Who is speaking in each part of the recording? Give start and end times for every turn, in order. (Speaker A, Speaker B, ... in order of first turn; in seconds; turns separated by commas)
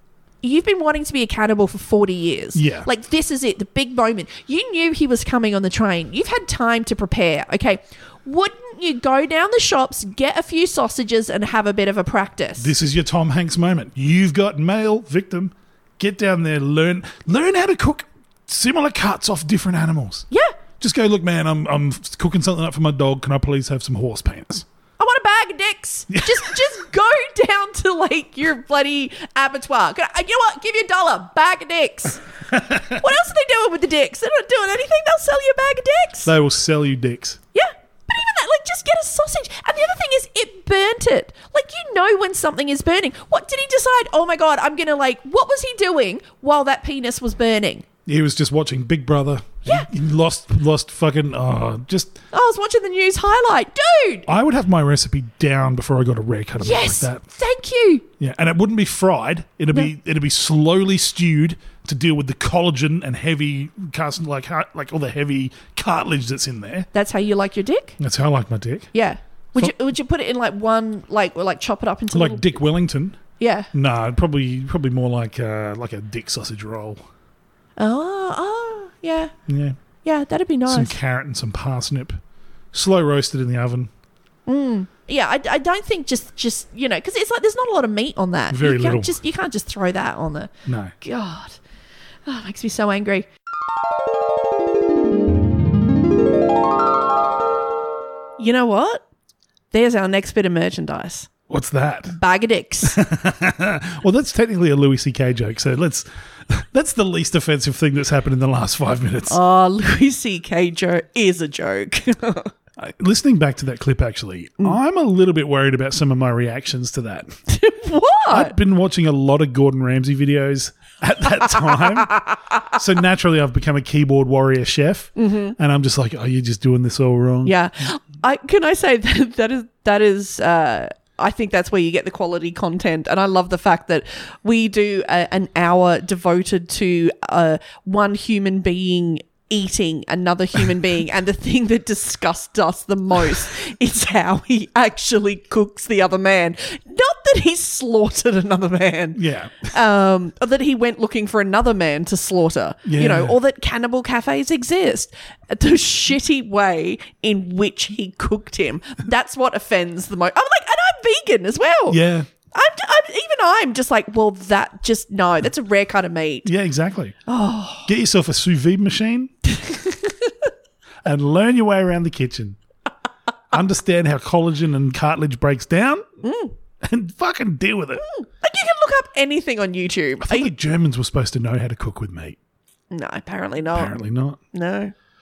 Speaker A: 0.4-12.7, Speaker B: 2.5-2.9, Speaker B: 12.6-20.3, Speaker B: 20.8-24.6, Speaker A: 25.0-32.2, Speaker B: 26.1-26.6, Speaker B: 32.5-32.9, Speaker A: 32.9-36.3, Speaker B: 36.2-37.4, Speaker A: 37.5-47.9, Speaker B: 48.1-52.2, Speaker A: 52.3-54.3, Speaker B: 54.3-57.2, Speaker A: 56.6-58.0, Speaker B: 58.2-66.9, Speaker A: 66.9-68.0, Speaker B: 68.0-68.9, Speaker A: 68.9-72.6, Speaker B: 72.1-73.2, Speaker A: 73.4-73.7, Speaker B: 73.7-77.0, Speaker A: 77.8-79.3, Speaker B: 79.5-79.8, Speaker A: 80.0-81.0, Speaker B: 80.7-82.2, Speaker B: 82.7-83.9, Speaker A: 84.5-91.6, Speaker B: 88.5-89.2, Speaker B: 90.7-91.0, Speaker A: 92.3-93.3, Speaker A: 98.4-99.0, Speaker A: 99.7-101.3, Speaker B: 101.5-102.2, Speaker A: 102.1-103.0, Speaker B: 102.8-109.4, Speaker A: 109.3-112.5, Speaker B: 112.8-117.3, Speaker A: 117.5-118.6, Speaker B: 118.3-122.2, Speaker A: 122.0-122.3, Speaker B: 122.7-127.6, Speaker A: 125.2-125.6, Speaker A: 127.4-162.0, Speaker B: 149.2-149.7, Speaker B: 152.8-153.4, Speaker B: 161.9-162.3, Speaker A: 162.5-166.5, Speaker B: 166.4-167.2, Speaker A: 167.3-167.9, Speaker B: 167.9-169.3, Speaker A: 169.6-170.3, Speaker B: 171.0-172.6, Speaker B: 173.5-176.1, Speaker A: 176.2-176.5, Speaker B: 176.8-178.1, Speaker A: 178.0-180.5, Speaker B: 180.2-182.4, Speaker A: 182.9-183.9, Speaker B: 183.7-184.4, Speaker A: 184.5-184.9